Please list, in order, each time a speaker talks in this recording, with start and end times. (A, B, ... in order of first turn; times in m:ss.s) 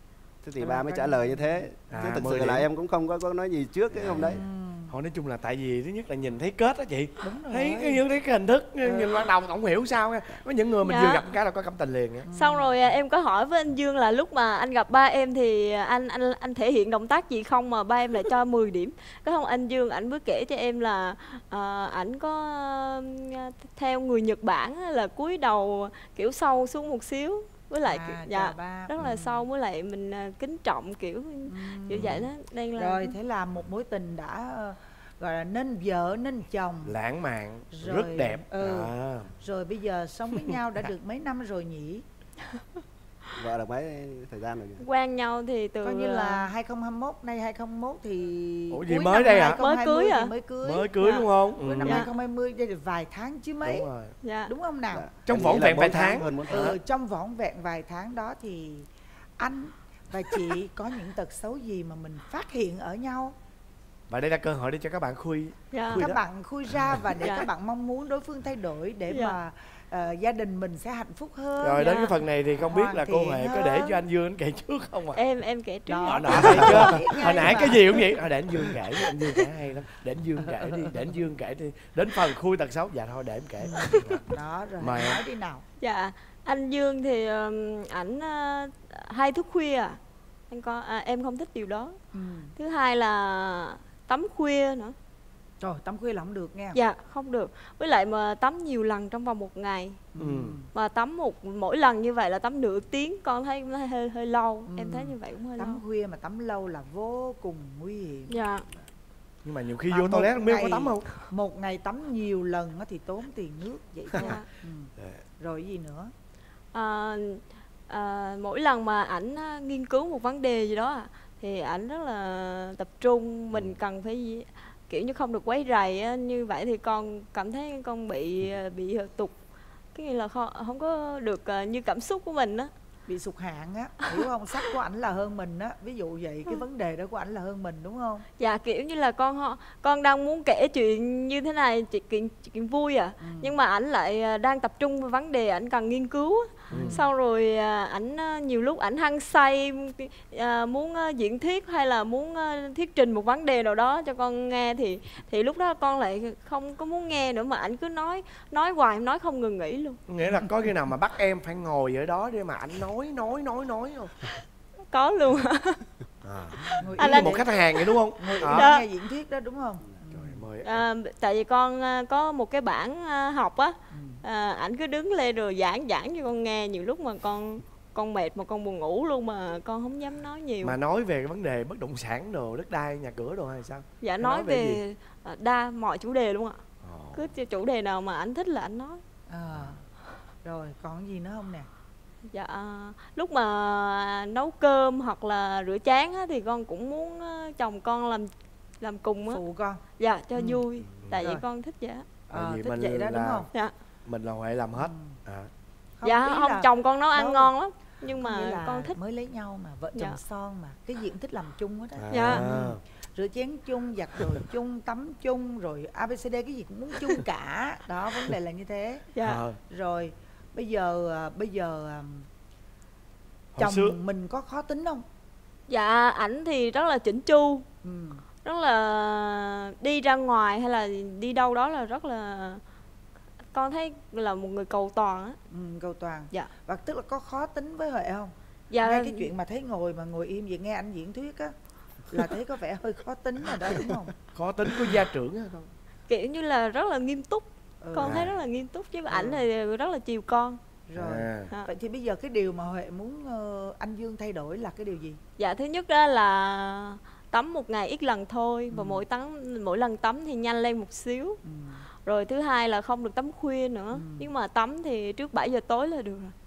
0:00.4-0:04.4 A
0:00.6-0:02.1 B
0:01.9-0:02.7 C
0:03.9-0:12.3 C
0:04.2-0:04.9 B
0:07.2-0:08.0 B
0:08.8-0:09.3 B
0:10.8-0:11.3 D
0:12.3-0:12.7 B
0:12.3-0:33.2 D
0:27.8-0:29.5 B
0:31.5-0:37.0 B
0:31.9-0:32.3 C
0:36.8-0:39.3 C
0:37.7-0:42.0 B
0:43.4-0:44.8 A
0:44.8-0:46.5 D
0:45.8-0:53.9 B
0:48.7-0:49.6 C
0:49.5-0:50.3 D
0:50.6-0:52.1 C
0:51.8-0:52.1 D
0:53.6-0:54.2 C
0:54.2-0:54.5 D
0:54.5-0:55.1 B
0:54.9-0:56.7 A
0:55.2-0:56.8 C
0:56.5-0:58.9 B
0:59.4-1:03.4 B
1:04.1-1:06.2 C
1:05.7-1:06.1 D
1:05.9-1:11.9 B
1:07.2-1:07.5 D
1:09.1-1:09.4 D
1:11.6-1:15.2 C
1:11.8-1:12.2 D
1:12.6-1:14.0 B
1:15.1-1:17.0 D
1:15.9-1:18.1 B
1:16.0-1:24.2 C
1:20.4-1:21.1 B
1:23.7-1:25.6 B
1:24.8-1:25.2 C
1:25.8-1:30.0 D
1:30.5-1:32.0 D
1:32.1-1:32.5 B
1:32.6-1:35.0 D
1:35.6-1:36.8 B
1:36.7-1:40.0 D
1:40.2-1:40.7 B
1:40.2-1:40.6 C
1:40.7-1:45.8 D
1:44.7-1:48.4 B
1:48.3-1:48.7 D
1:49.4-1:51.1 C
1:49.9-1:56.1 B
1:54.2-1:54.5 D
1:55.0-1:55.2 C
1:56.7-2:09.4 D
2:03.5-2:03.8 C
2:09.9-2:12.7 D
2:13.1-2:18.3 B
2:18.4-2:40.0 D
2:23.2-2:23.6 B
2:26.7-2:27.0 C
2:26.7-2:27.1 B
2:40.1-2:44.1 C
2:44.9-2:45.8 D
2:46.2-2:48.7 C
2:46.8-2:47.5 B
2:47.0-2:47.9 D
2:48.2-2:50.4 B
2:48.4-2:48.8 D
2:50.1-2:50.8 C
2:50.6-3:00.8 D
2:53.9-2:54.2 B
3:00.6-3:04.8 C
3:04.0-3:09.0 D
3:06.8-3:07.3 C
3:09.3-3:09.8 B
3:09.5-3:09.8 C
3:10.4-3:11.7 B
3:12.3-3:18.3 D
3:18.8-3:19.4 D
3:19.3-3:19.8 B
3:20.0-3:22.2 D
3:20.4-3:21.4 B
3:20.8-3:21.2 C
3:22.3-3:23.5 C
3:22.3-3:23.5 B
3:24.1-3:25.5 C
3:24.8-3:25.2 B
3:26.0-3:27.5 B
3:26.0-3:29.0 D
3:28.1-3:39.1 B
3:29.9-3:30.2 D
3:32.0-3:32.8 C
3:32.1-3:32.5 D
3:39.2-3:39.4 D
3:39.2-3:39.6 C
3:39.7-3:42.3 B
3:43.6-3:44.0 C
3:43.6-3:45.0 B
3:45.7-3:47.7 D
3:47.8-3:48.2 B
3:48.4-3:52.6 D
3:53.5-3:55.4 D
3:55.5-4:01.5 B
3:58.7-3:59.3 D
4:02.1-4:04.1 B
4:04.4-4:05.7 C
4:06.1-4:10.6 D
4:07.8-4:08.3 B
4:08.0-4:08.3 C
4:09.1-4:09.4 B
4:10.9-4:15.2 B
4:11.0-4:11.5 C
4:15.4-4:21.4 D
4:18.7-4:19.1 B
4:21.4-4:21.8 B
4:22.0-4:26.3 D
4:23.9-4:24.3 B